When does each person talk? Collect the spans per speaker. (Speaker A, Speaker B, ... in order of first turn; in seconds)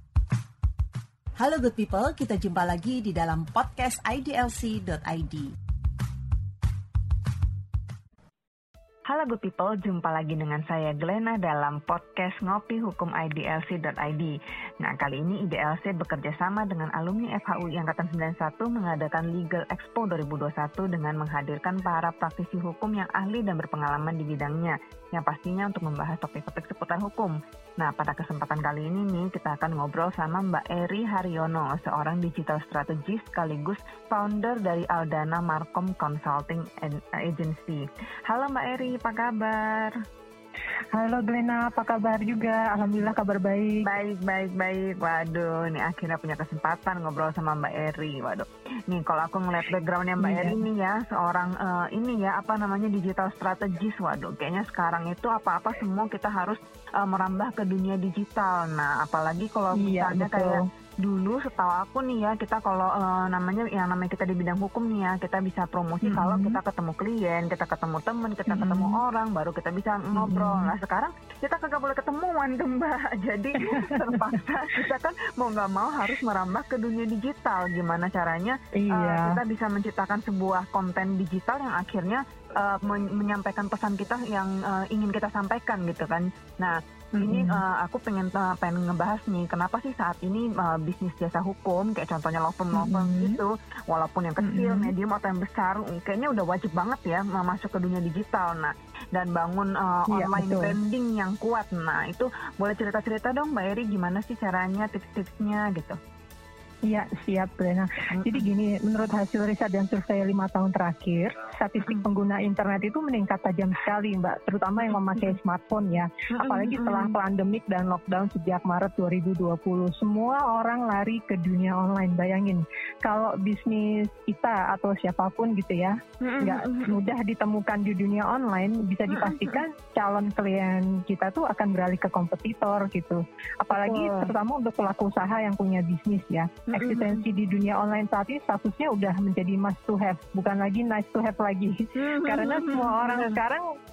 Speaker A: 1.4-5.5
Speaker B: 9.1-39.9, 43.8-106.0, 108.1-108.5, 114.9-115.4, 116.4-117.2, 126.2-127.0, 129.1-129.6, 133.7-134.3, 136.7-137.2, 142.0-143.4
Speaker C: 41.0-43.9, 50.2-50.6, 59.7-60.6, 66.0-66.6, 68.5-69.0, 70.1-70.7, 73.7-74.1, 78.8-79.4, 87.2-87.6, 92.7-93.4, 94.4-94.9, 100.1-100.8, 106.9-143.6